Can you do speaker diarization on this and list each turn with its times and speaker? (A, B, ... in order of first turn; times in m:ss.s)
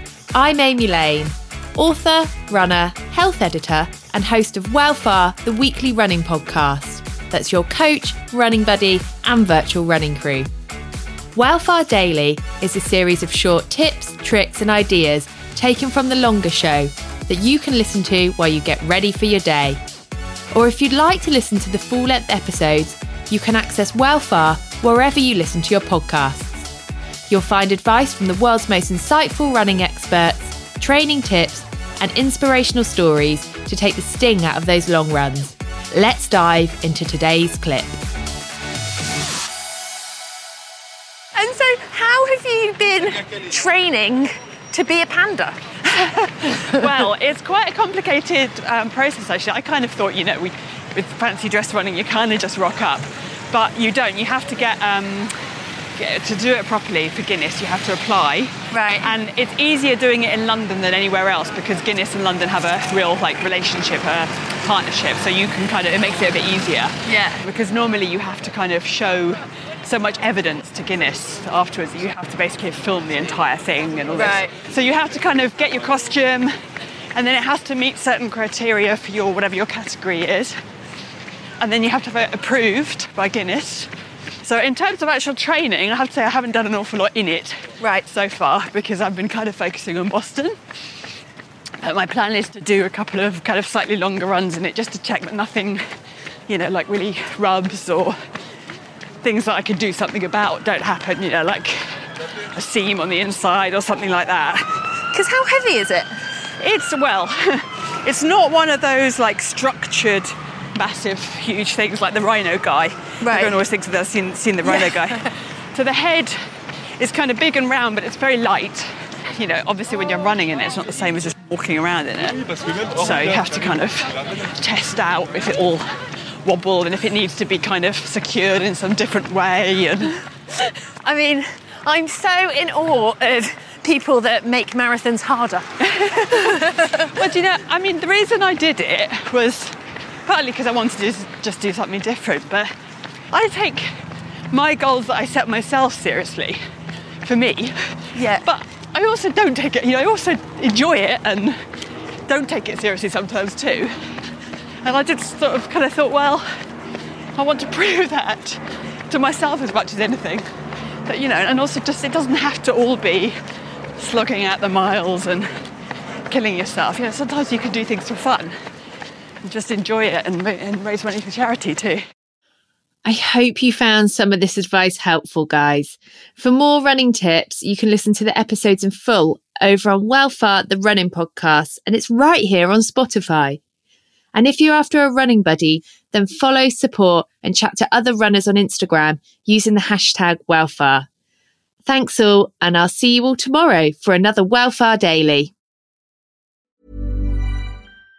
0:00.4-0:10.5 A
0:11.4-0:19.8 A
0:20.5-0:26.7 A
0:27.3-0:38.0 A
0:41.4-0:45.5 B
0:45.8-0:55.3 C
0:56.0-1:16.5 C
0:58.7-0:59.1 B
1:07.1-1:07.4 B
1:14.2-1:14.5 B
1:17.2-1:20.6 C
1:21.6-1:23.9 C
1:24.4-1:30.6 C
1:31.8-1:35.8 C
1:36.5-1:38.2 C
1:39.2-1:45.0 C
1:45.1-1:46.1 B
1:46.5-1:56.4 C
1:53.2-1:53.5 B
1:57.0-2:05.9 C
2:06.4-2:10.2 C
2:11.0-2:15.6 B
2:15.9-2:22.7 C
2:23.3-2:24.0 C
2:24.5-2:26.6 C
2:27.2-2:31.6 C
2:28.2-2:28.4 B
2:32.3-2:34.0 C
2:34.8-2:36.5 C
2:37.4-2:40.5 C
2:41.1-2:43.4 C
2:44.0-2:45.5 C
2:46.3-2:48.6 C
2:49.4-2:52.0 C
2:53.0-3:03.6 A
3:04.3-3:11.1 A
3:11.8-3:15.5 A